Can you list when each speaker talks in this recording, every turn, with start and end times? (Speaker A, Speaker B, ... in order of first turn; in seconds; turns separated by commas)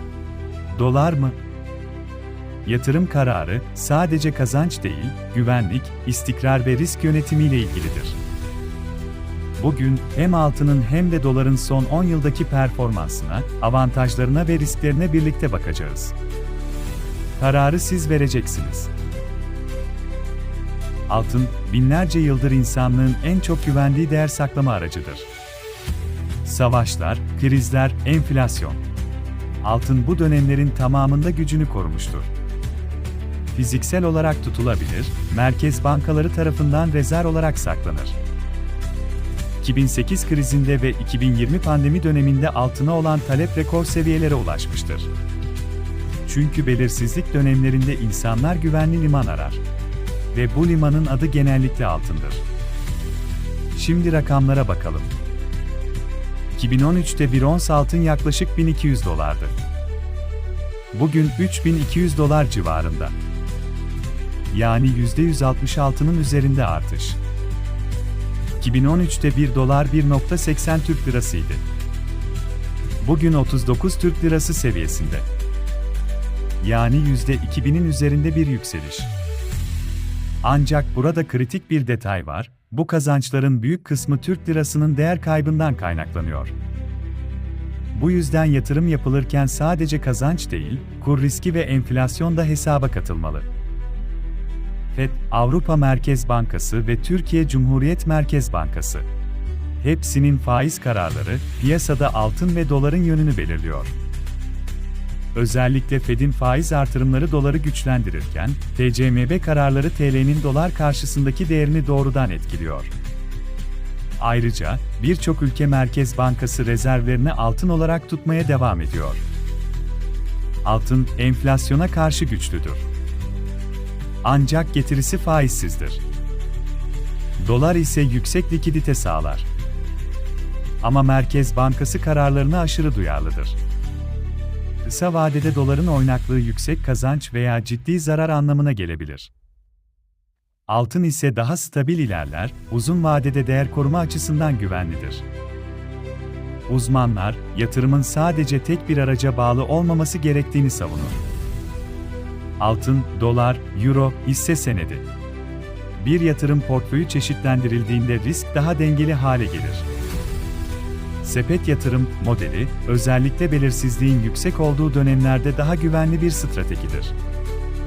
Speaker A: 0.7-1.4, Speaker A: 2.6-8.2, Speaker A: 9.6-16.1, Speaker A: 17.4-18.9, Speaker A: 21.1-25.3, Speaker A: 26.4-28.8, Speaker A: 29.6-32.3, Speaker A: 33.5-38.2, Speaker A: 39.6-45.1, Speaker A: 46.2-49.6, Speaker A: 50.3-52.5, Speaker A: 53.7-55.1, Speaker A: 56.5-59.6, Speaker A: 60.9-63.1, Speaker A: 64.5-67.2, Speaker A: 68.6-71.6, Speaker A: 73.0-75.3, Speaker A: 76.6-79.1, Speaker A: 80.4-86.5, Speaker A: 87.9-93.5, Speaker A: 94.9-99.1, Speaker A: 99.8-103.9, Speaker A: 105.3-112.9, Speaker A: 114.2-119.2, Speaker A: 120.6-122.9, Speaker A: 124.2-126.0, Speaker A: 127.4-129.5, Speaker A: 130.8-133.6, Speaker A: 134.8-139.3, Speaker A: 140.7-145.2, Speaker A: 146.7-151.2, Speaker A: 152.6-155.1, Speaker A: 156.0-159.9, Speaker A: 161.2-167.2